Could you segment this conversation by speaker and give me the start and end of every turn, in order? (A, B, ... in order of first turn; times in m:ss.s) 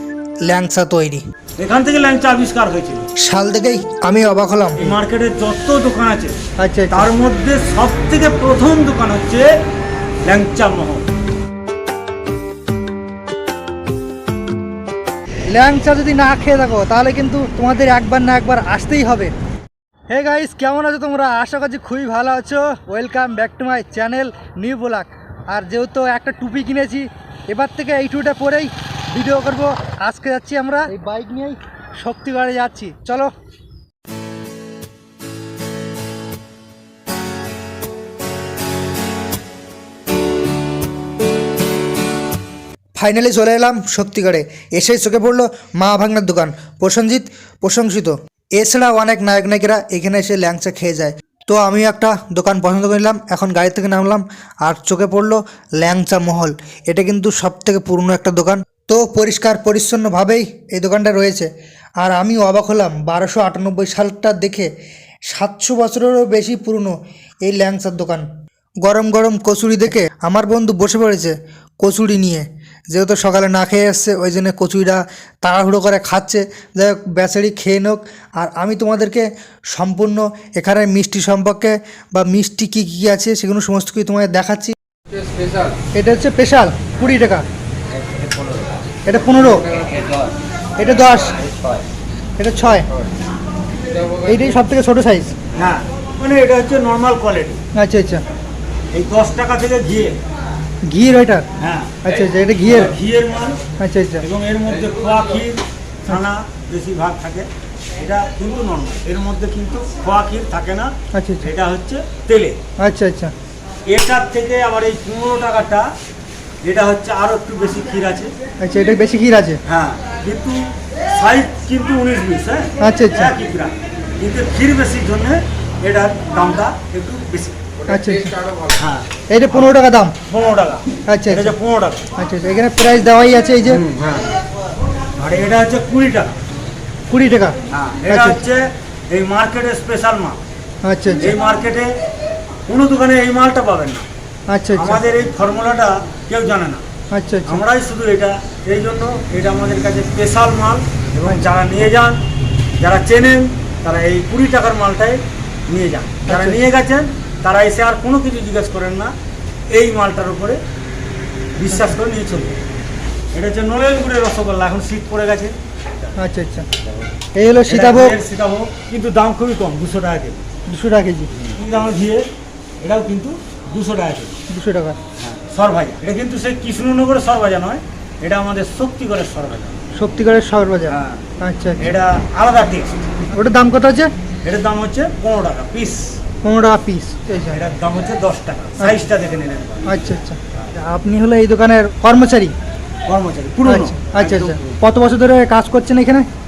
0:00.5-0:01.2 A
0:01.6-0:03.1 B
0:03.2-0:05.0 A
0:04.8-0:06.4 B
0:06.6-0:07.1 A
0:06.9-0:09.5 B
0:10.2-0:11.0 B
0:15.5-0:19.3 A
0:20.1-0:33.3 A
0:43.0-1:01.5 A
1:02.0-1:04.7 A
1:05.3-1:08.3 A
1:08.8-1:24.8 A
1:26.0-1:27.4 A
1:29.1-1:29.7 A
1:30.8-1:31.4 A
1:32.4-1:32.9 A
1:34.2-1:35.4 A
1:35.5-1:37.6 B
1:37.8-1:38.2 A
1:38.9-1:40.2 B
1:40.9-1:41.4 A
1:41.6-1:42.0 B
1:42.0-1:42.9 A
1:42.6-1:43.6 B
1:43.8-1:44.2 A
1:44.2-1:52.6 B
1:51.2-1:51.5 A
1:52.8-1:53.3 A
1:53.9-1:55.9 B
1:56.6-1:58.3 B
1:58.6-1:59.6 A
1:59.6-2:07.6 B
2:02.8-2:03.3 A
2:07.9-2:08.4 A
2:08.7-2:12.0 B
2:09.3-2:10.2 A
2:11.1-2:11.6 A
2:12.2-2:13.8 A
2:13.6-2:14.4 B
2:15.2-2:16.3 B
2:17.1-2:17.6 A
2:17.7-2:20.4 B
2:18.1-2:18.4 A
2:20.9-2:21.4 A
2:21.2-2:22.0 B
2:22.7-2:24.1 B
2:24.5-2:25.0 A
2:24.7-2:26.8 B
2:27.1-2:27.6 A
2:27.5-2:32.2 B
2:32.8-2:39.1 B
2:36.3-2:36.6 A
2:39.7-2:40.6 B
2:41.6-2:42.6 B
2:43.3-2:46.1 B
2:46.2-2:46.7 A
2:47.4-2:48.2 A
2:47.7-2:50.4 B
2:50.7-2:51.3 A
2:51.4-2:52.3 B
2:52.8-2:54.4 B
2:54.5-2:55.0 A
2:55.2-2:59.8 B
3:00.0-3:01.9 A
3:00.9-3:01.2 B
3:01.8-3:03.1 B
3:03.3-3:04.1 A
3:04.4-3:06.2 B
3:06.4-3:07.6 A
3:07.5-3:10.1 B
3:09.9-3:12.5 A
3:13.1-3:14.8 B
3:13.6-3:16.3 A